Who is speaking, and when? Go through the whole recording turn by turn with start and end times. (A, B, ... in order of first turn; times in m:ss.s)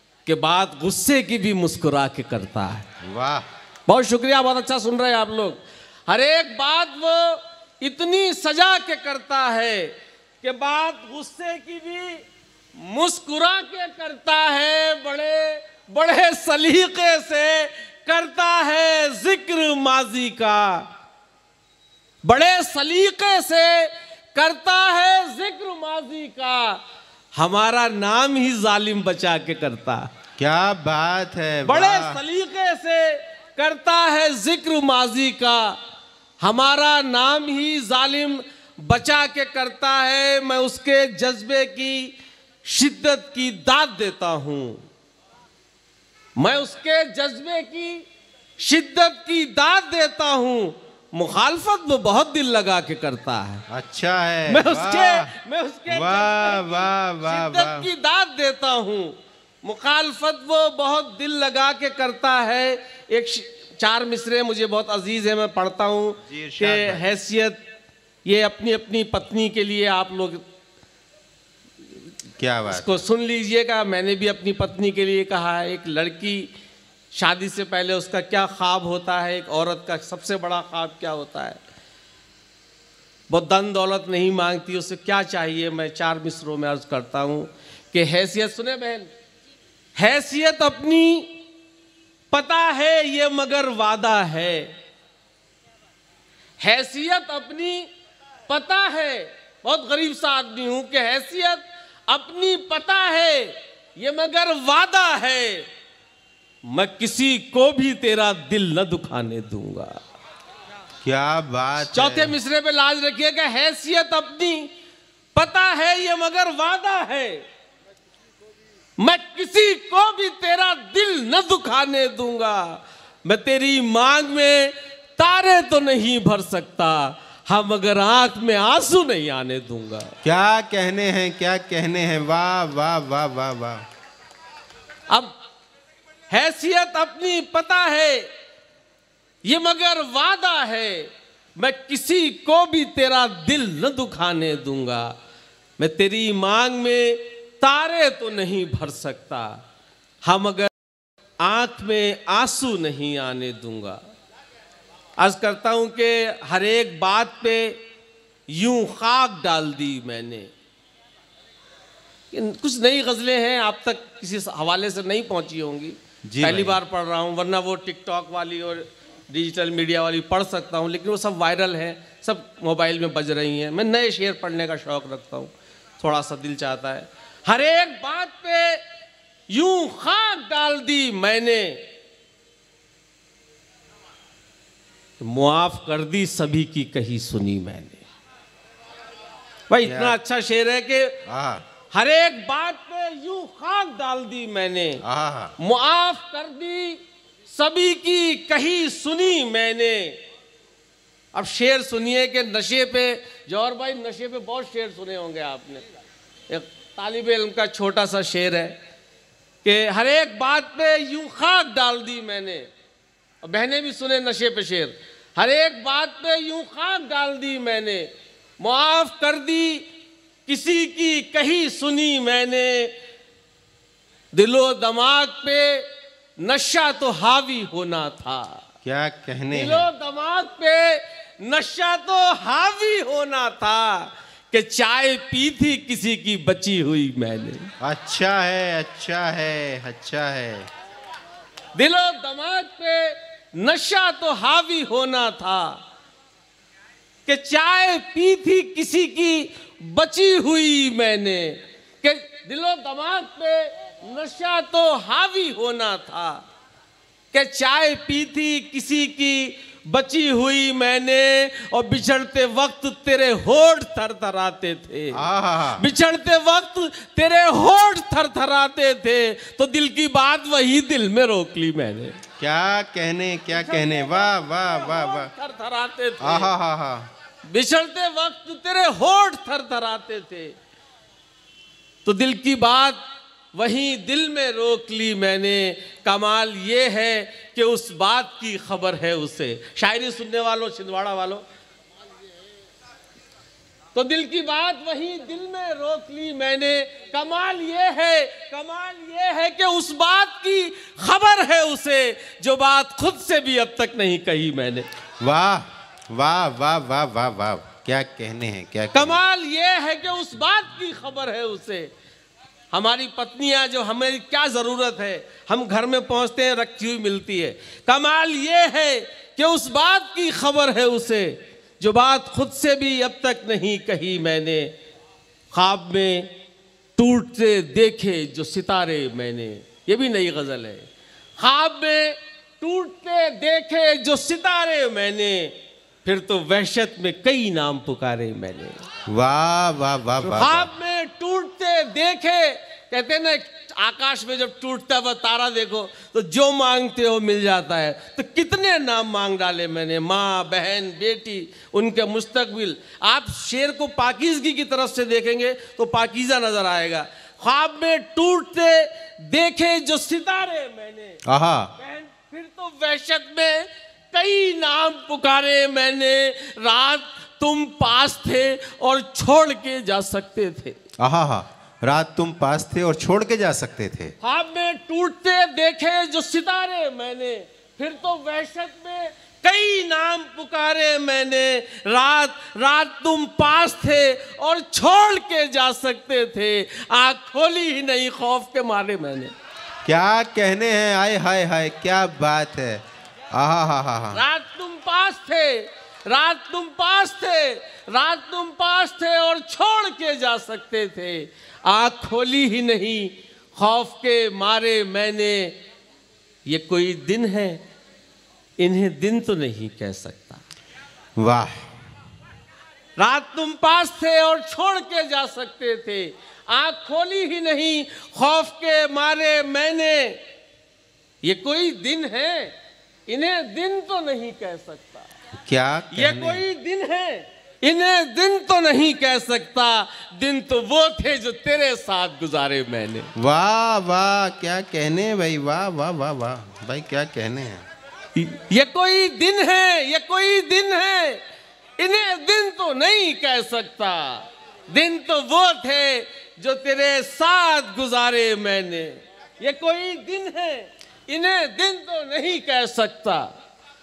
0:00.2-0:02.9 A
0:03.0-0:03.4 B
0:03.9-0:12.2 A
0:12.8-0:20.9 A
0:22.2-0:26.8 A
0:27.4-0:30.1 A
0:30.4-0:32.2 B
0:31.6-0:35.8 A
0:36.4-0:44.8 A
0:46.4-0:48.0 A
0:48.6-0:53.6 A
0:53.7-0:55.3 B
0:54.5-1:07.6 A
0:55.9-0:57.9 B
1:06.3-1:07.0 B
1:08.2-1:10.4 A
1:12.4-1:13.0 B
1:12.7-1:16.5 A
1:17.1-1:21.6 A
1:23.3-1:29.1 A
1:30.0-1:31.3 A
1:32.3-1:34.7 A
1:36.6-1:37.9 A
1:38.5-1:45.7 A
1:46.6-1:50.0 A
1:51.0-1:52.3 B
1:51.8-1:54.7 A
1:55.3-1:57.4 A
1:59.0-2:10.1 A
2:10.2-2:13.8 B
2:16.3-2:18.3 A
2:19.4-2:25.1 A
2:25.8-2:29.6 A
2:30.2-2:30.7 A
2:31.4-2:34.0 A
2:35.2-2:37.8 A
2:38.5-2:40.5 A
2:42.3-2:58.8 A
2:46.2-2:46.8 B
2:59.5-3:01.8 A
3:05.2-3:08.0 A
3:09.7-3:11.2 A
3:09.8-3:10.2 B
3:11.2-3:11.6 B
3:11.9-3:15.0 A
3:15.0-3:15.5 B
3:15.6-3:20.2 A
3:21.3-3:25.8 A
3:26.5-3:28.8 A
3:29.6-3:32.7 A
3:33.4-3:39.8 A
3:40.5-3:42.9 A
3:44.3-3:45.8 A
3:46.4-3:48.6 A
3:48.8-3:49.9 B
3:49.5-3:57.7 A
3:57.8-4:00.7 B
4:01.7-4:05.8 A
4:07.3-4:16.4 A
4:17.3-4:25.2 A
4:25.1-4:25.8 B
4:25.8-4:32.2 A
4:32.4-4:35.3 B
4:33.5-4:36.5 A
4:36.2-4:37.1 B
4:37.4-4:40.6 A
4:42.0-4:43.0 A
4:43.5-4:51.4 A
4:53.9-5:04.9 A
5:05.2-5:09.2 B
5:08.9-5:11.9 A
5:12.7-5:24.7 A
5:25.5-5:26.3 A
5:27.0-5:30.9 A
5:31.4-5:38.8 A
5:39.1-5:40.7 B
5:40.2-6:01.2 A
6:01.2-6:01.7 B
6:01.8-6:10.8 A
6:11.0-6:14.1 B
6:14.2-6:29.3 A
6:29.8-6:34.2 B
6:34.1-6:45.6 A
6:46.4-6:47.6 A
6:48.6-6:50.4 A
6:51.2-6:51.6 B
6:53.0-7:00.2 A
7:01.2-7:02.5 A
7:03.1-7:05.1 A
7:05.4-7:06.4 B
7:05.9-7:13.1 A
7:13.2-7:17.6 B
7:18.1-7:21.2 A
7:21.8-7:33.3 A